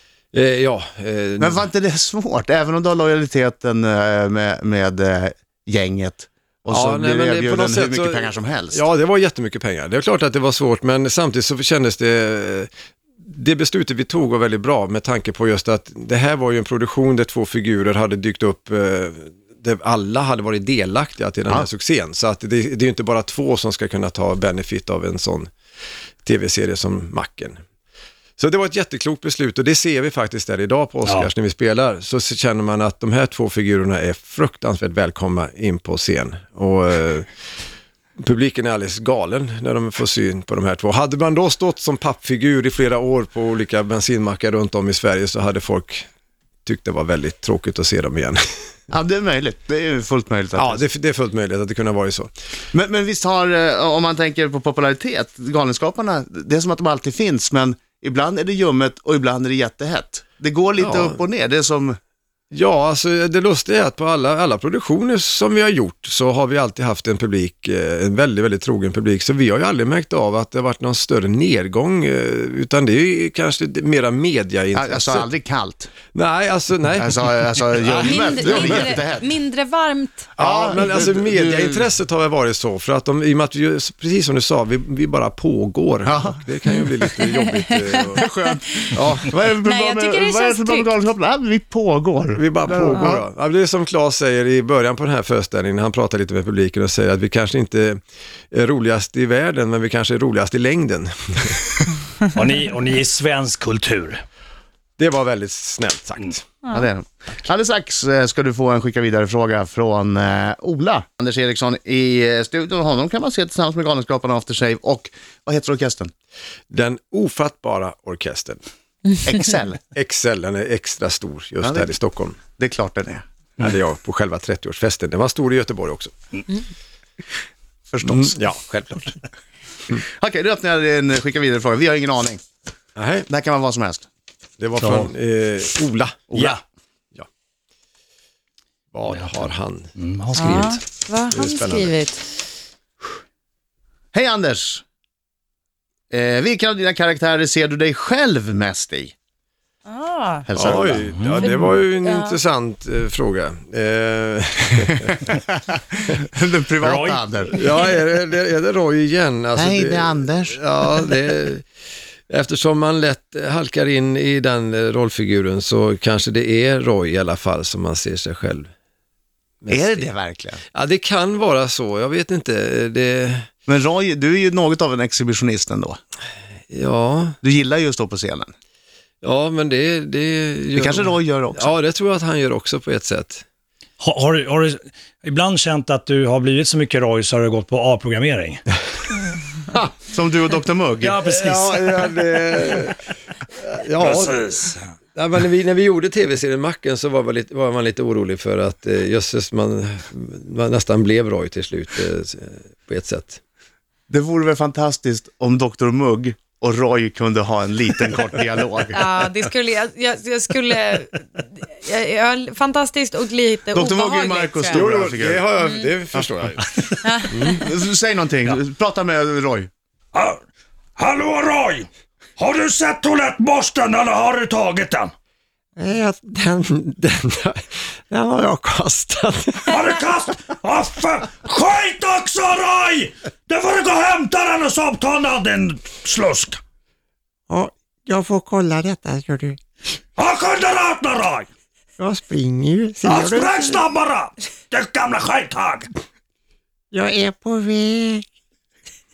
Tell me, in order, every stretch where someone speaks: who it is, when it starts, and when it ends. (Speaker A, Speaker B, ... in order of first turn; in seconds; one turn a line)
Speaker A: 0.3-1.7
Speaker B: 1.4-8.8
Speaker A: 6.7-12.7
Speaker A: 13.2-25.5
Speaker A: 26.2-27.6
Speaker A: 28.4-37.3
Speaker C: 31.0-31.3
Speaker A: 38.2-46.1
Speaker A: 46.6-48.4
Speaker B: 48.9-50.8
Speaker A: 50.5-52.3
Speaker B: 52.7-62.0
Speaker A: 60.8-61.2
Speaker A: 62.5-75.3
Speaker B: 74.7-75.9
Speaker A: 76.1-78.9
Speaker B: 77.0-79.3
Speaker D: 78.0-80.3
Speaker B: 80.3-81.8
Speaker A: 80.3-88.3
Speaker B: 86.0-86.4
Speaker D: 86.9-88.6
Speaker B: 88.2-93.2
Speaker A: 88.9-89.3
Speaker D: 89.5-90.9
Speaker A: 92.3-101.8
Speaker C: 102.3-104.2
Speaker A: 105.0-106.5
Speaker B: 106.7-116.1
Speaker A: 116.7-118.6
Speaker B: 119.2-119.8
Speaker A: 119.9-122.4
Speaker B: 121.6-121.9
Speaker B: 122.5-123.2
Speaker A: 123.6-126.1
Speaker B: 127.9-128.4
Speaker A: 128.0-129.2
Speaker B: 129.9-132.4
Speaker A: 133.0-133.3
Speaker B: 133.3-134.1
Speaker A: 134.6-136.3
Speaker C: 134.8-135.1
Speaker A: 138.9-139.9
Speaker C: 139.1-139.4
Speaker C: 140.0-140.8
Speaker D: 140.3-142.2
Speaker A: 141.3-141.9
Speaker B: 144.1-144.8
Speaker B: 146.1-149.1
Speaker D: 149.8-152.4
Speaker B: 150.5-151.0
Speaker A: 150.5-155.2
Speaker C: 151.1-151.5
Speaker B: 155.2-155.6
Speaker B: 156.1-157.5
Speaker C: 156.8-157.5
Speaker A: 157.5-161.6
Speaker B: 159.5-160.6
Speaker A: 162.3-168.7
Speaker A: 169.6-170.1
Speaker B: 169.7-170.6
Speaker A: 170.7-173.5
Speaker B: 173.7-176.0
Speaker A: 176.7-177.4
Speaker B: 177.4-178.5
Speaker A: 179.2-183.4
Speaker B: 180.8-181.7
Speaker C: 184.0-188.6
Speaker B: 190.1-191.2
Speaker C: 191.0-192.9
Speaker A: 191.3-194.5
Speaker C: 194.0-194.8
Speaker A: 195.1-203.4
Speaker B: 204.1-209.3
Speaker D: 208.9-214.9
Speaker B: 213.7-215.5
Speaker A: 214.8-217.6
Speaker D: 215.6-215.9
Speaker D: 217.0-217.6
Speaker B: 217.6-219.7
Speaker C: 220.1-220.4
Speaker C: 221.0-225.1
Speaker E: 225.8-227.5
Speaker E: 228.1-229.7
Speaker C: 229.7-236.6
Speaker E: 237.5-239.6
Speaker C: 240.2-241.5
Speaker E: 242.0-243.8
Speaker C: 243.0-245.9
Speaker E: 246.9-248.2